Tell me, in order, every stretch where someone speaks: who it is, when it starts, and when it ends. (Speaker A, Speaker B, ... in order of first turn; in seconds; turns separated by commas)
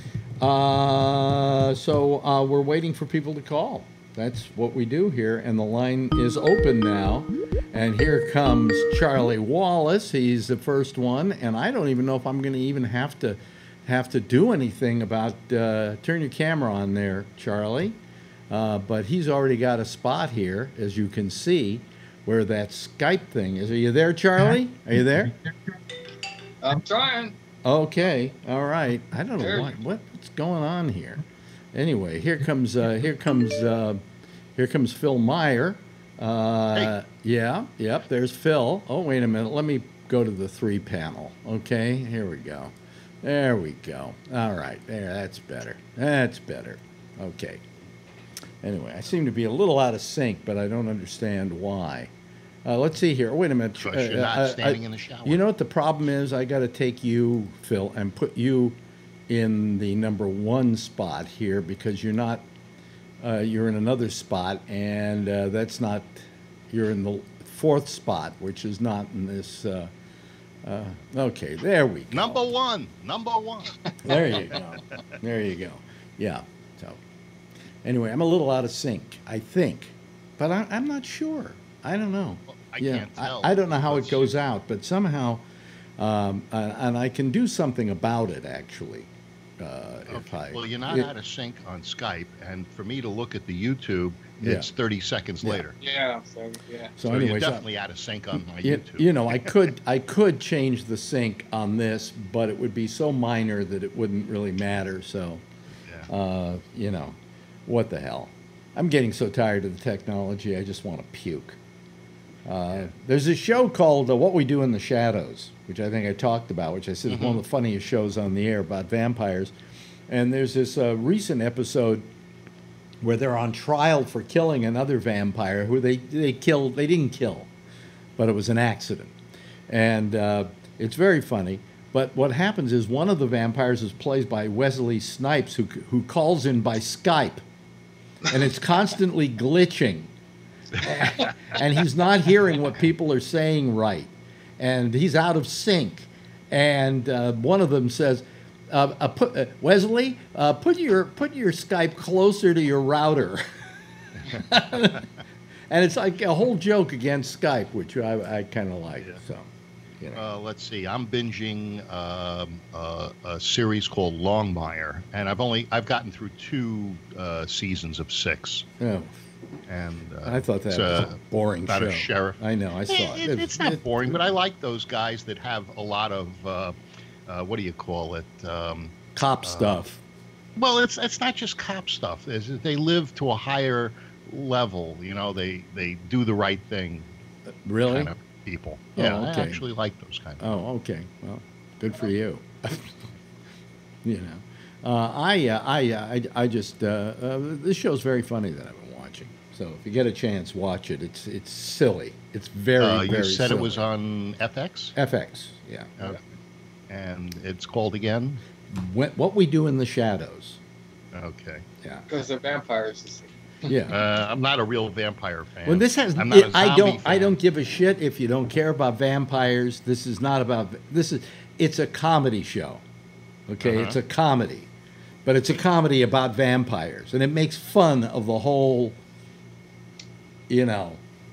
Speaker A: 0.4-18.0, Speaker A: 18.5-25.4, Speaker B: 26.6-27.4, Speaker A: 27.6-34.0, Speaker B: 29.4-29.7, Speaker A: 34.6-47.6, Speaker A: 48.6-52.1, Speaker A: 52.6-58.8, Speaker C: 53.8-55.4, Speaker A: 59.3-62.5, Speaker A: 63.2-69.9, Speaker A: 70.6-72.4, Speaker C: 72.1-73.8, Speaker A: 74.0-77.0, Speaker A: 77.8-85.4, Speaker C: 82.5-84.3, Speaker A: 86.0-91.1, Speaker C: 90.1-95.8, Speaker A: 94.4-94.7, Speaker B: 95.8-97.0, Speaker A: 97.0-97.7, Speaker C: 97.0-99.5, Speaker A: 98.6-105.4, Speaker A: 106.1-111.6, Speaker A: 112.5-119.5, Speaker C: 117.1-117.4, Speaker A: 120.1-122.1, Speaker A: 123.0-127.5, Speaker A: 128.2-129.1, Speaker A: 129.7-137.4, Speaker A: 138.3-140.1, Speaker A: 140.8-153.6, Speaker A: 154.3-155.0, Speaker C: 154.3-155.0, Speaker A: 155.7-160.2, Speaker C: 160.1-168.7, Speaker A: 168.8-169.1, Speaker C: 169.7-171.2, Speaker A: 170.2-174.2, Speaker C: 171.7-179.8, Speaker A: 179.2-180.0, Speaker C: 180.6-187.1, Speaker A: 187.7-188.1, Speaker C: 187.9-190.6, Speaker A: 189.0-189.6, Speaker A: 190.4-193.0, Speaker A: 194.0-203.8, Speaker C: 202.8-204.9, Speaker A: 205.0-206.2, Speaker C: 206.9-208.4, Speaker A: 208.7-210.6, Speaker C: 211.1-211.7, Speaker B: 212.1-213.3, Speaker A: 213.7-214.0, Speaker C: 213.9-217.4, Speaker A: 215.7-222.8, Speaker A: 223.5-224.7, Speaker C: 223.6-223.9, Speaker A: 225.2-229.0, Speaker A: 230.5-231.0